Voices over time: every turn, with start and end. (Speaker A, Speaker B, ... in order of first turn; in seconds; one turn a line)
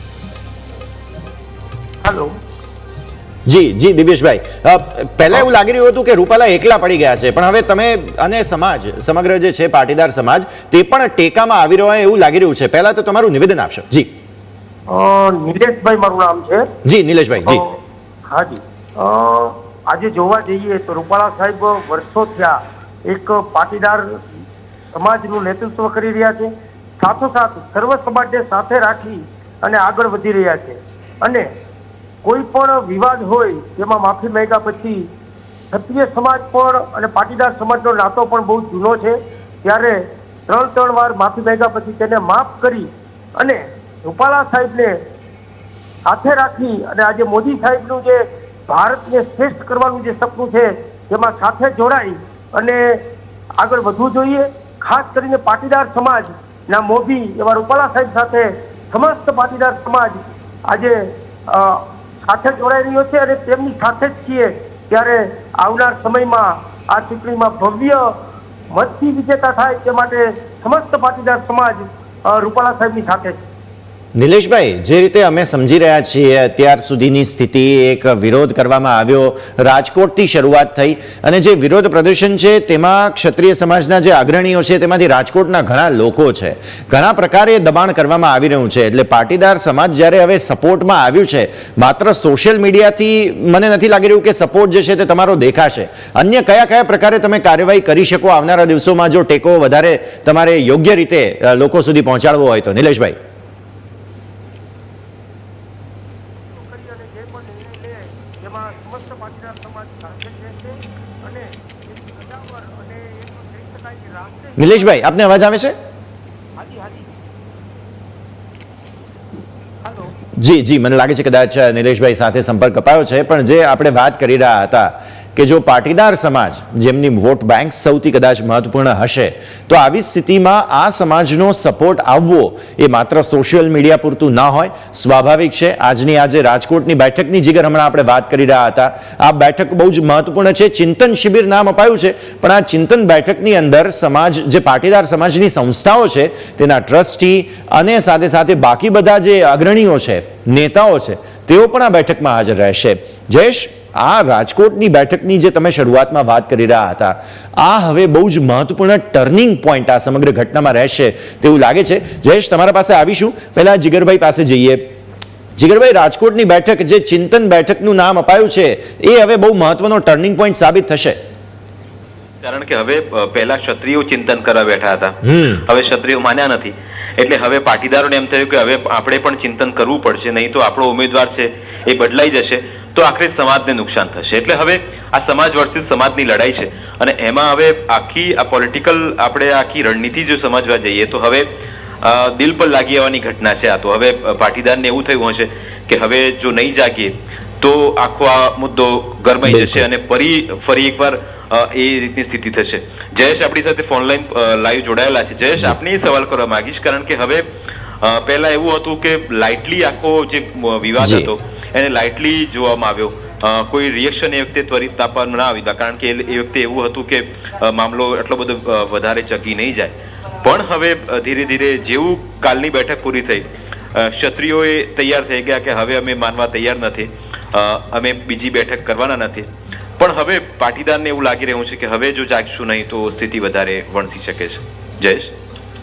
Speaker A: 2.0-2.3
Speaker B: 3.5-14.1
Speaker A: 14.9-16.6
Speaker B: 16.9-17.7
Speaker A: 17.5-17.7
Speaker A: 18.3-24.2
Speaker A: 24.9-31.5
Speaker A: 32.2-35.1
Speaker A: 35.7-45.0
Speaker A: 46.1-53.0
Speaker A: 53.6-68.1
Speaker A: 68.7-73.4
Speaker B: 74.2-103.2
Speaker A: 106.5-115.0
Speaker B: 114.6-115.8
Speaker A: 116.6-117.2
Speaker A: 119.8-120.1
Speaker B: 120.4-164.9
Speaker B: 165.6-171.2
Speaker C: 172.4-191.5
Speaker B: 175.3-175.6
Speaker C: 192.0-207.4
Speaker B: 199.6-199.8
Speaker C: 208.0-229.5
Speaker B: 211.0-211.3
Speaker C: 230.0-235.3